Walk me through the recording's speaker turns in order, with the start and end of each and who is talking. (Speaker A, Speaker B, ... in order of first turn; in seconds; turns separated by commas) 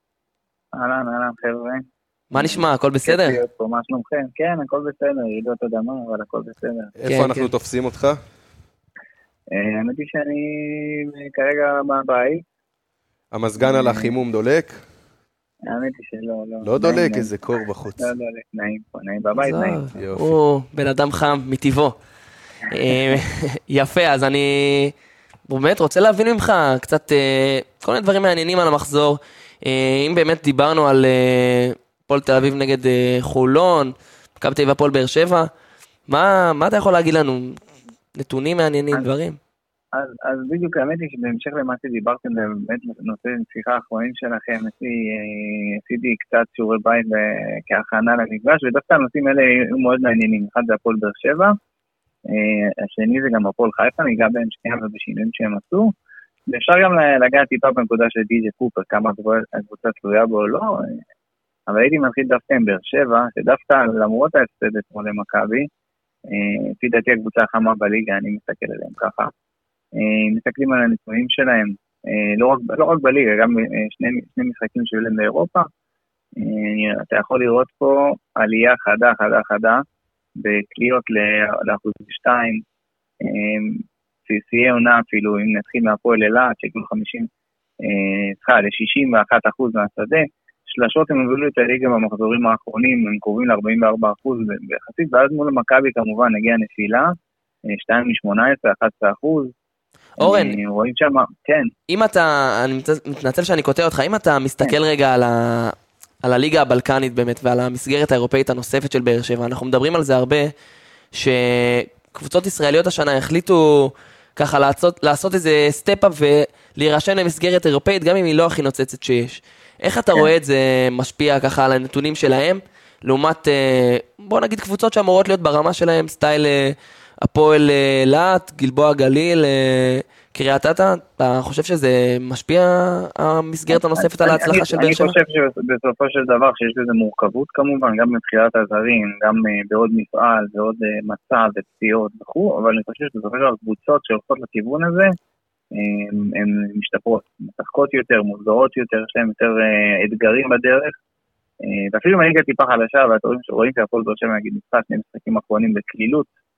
Speaker A: 0.7-6.9, Speaker B: 2.3-3.4, Speaker C: 7.0-8.2, Speaker B: 7.0-7.5, Speaker A: 9.5-12.4, Speaker C: 13.3-14.8, Speaker A: 13.6-14.1, Speaker A: 15.6-17.3, Speaker C: 16.6-18.1, Speaker A: 17.9-19.9, Speaker B: 19.3-21.9, Speaker C: 19.9-20.4, Speaker B: 22.7-24.9, Speaker A: 22.9-23.2, Speaker B: 25.5-35.5, Speaker B: 36.1-37.6, Speaker B: 38.1-39.4, Speaker A: 39.9-51.5, Speaker A: 52.3-55.9, Speaker A: 56.5-61.0, Speaker A: 61.7-65.7, Speaker A: 66.3-69.3, Speaker A: 69.9-75.7, Speaker A: 76.4-79.8, Speaker A: 80.4-82.6, Speaker A: 83.2-87.3, Speaker A: 87.8-97.1, Speaker A: 97.7-99.5, Speaker B: 100.2-100.6, Speaker A: 100.2-101.7, Speaker B: 101.9-110.5, Speaker B: 111.1-135.2, Speaker A: 133.7-145.2, Speaker A: 145.7-150.9, Speaker A: 151.6-156.3